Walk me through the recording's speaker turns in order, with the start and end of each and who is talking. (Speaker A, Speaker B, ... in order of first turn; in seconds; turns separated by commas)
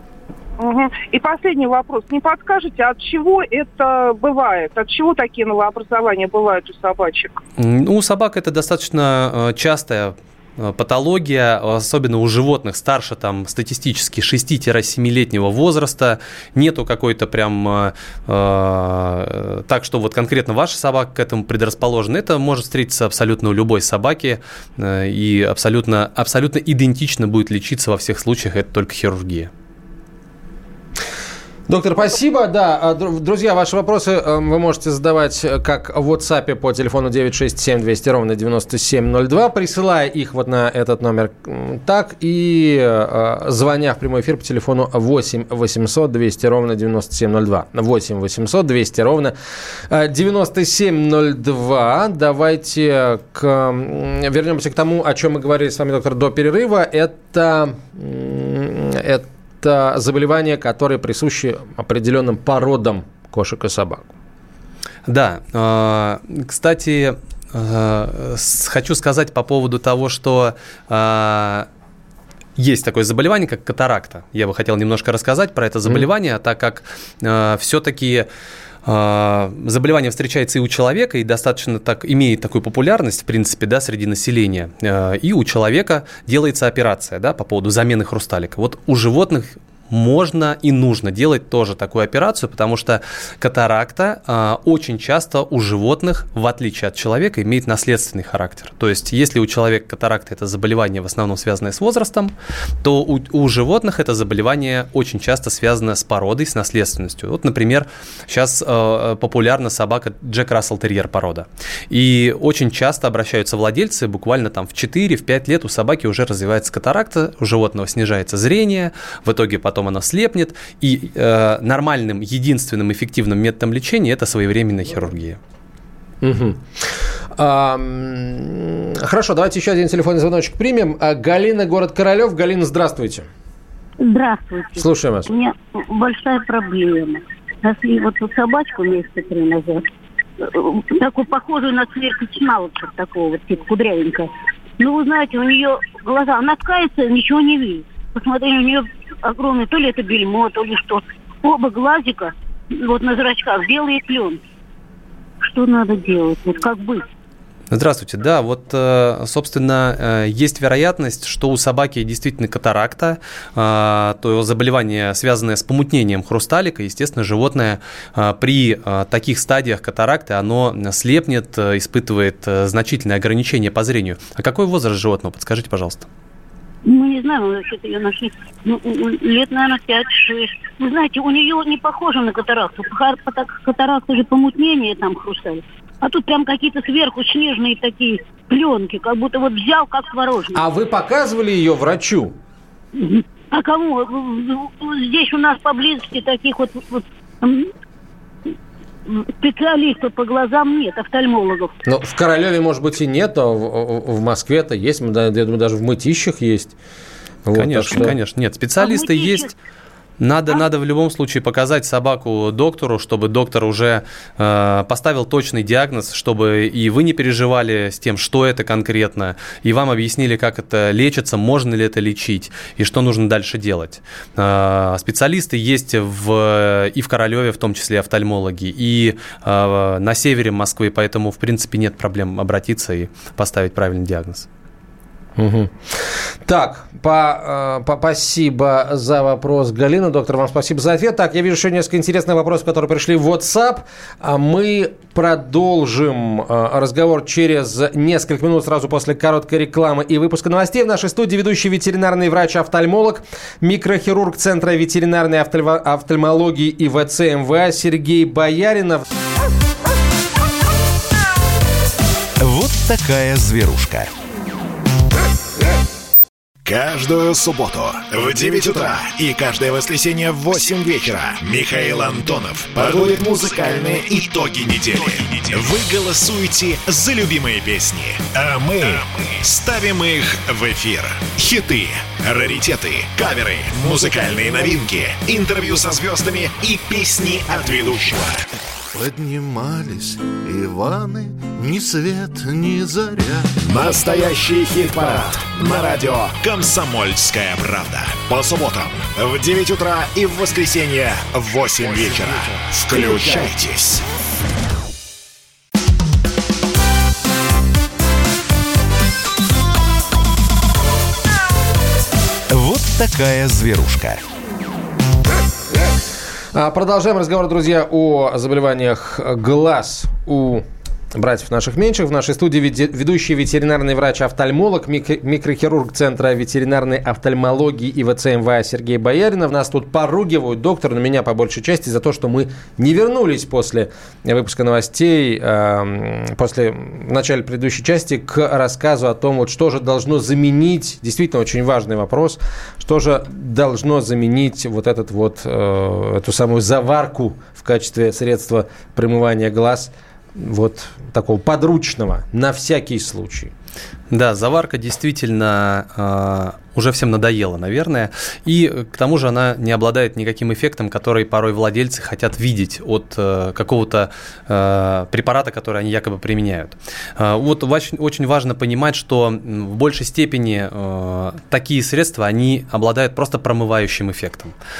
Speaker A: 0.6-7.4, Speaker B: 7.6-29.5, Speaker C: 31.7-49.4, Speaker C: 49.9-64.1, Speaker B: 65.1-71.7, Speaker B: 72.6-78.3, Speaker B: 78.8-125.4, Speaker C: 126.2-133.3, Speaker D: 134.0-139.8, Speaker C: 134.8-135.3, Speaker D: 140.4-154.4, Speaker D: 155.4-157.1, Speaker B: 157.7-176.1, Speaker D: 176.8-190.6, Speaker C: 190.5-192.4, Speaker D: 192.9-197.7, Speaker D: 199.1-201.7, Speaker C: 201.8-206.8, Speaker C: 207.4-208.2, Speaker B: 207.5-209.5, Speaker D: 208.8-209.5, Speaker B: 210.2-234.5, Speaker C: 235.4-259.0, Speaker E: 262.4-264.1, Speaker E: 266.6-288.5, Speaker F: 288.9-293.5, Speaker E: 293.6-304.0, Speaker E: 312.5-314.2, Speaker C: 316.5-353.5, Speaker B: 354.1-374.5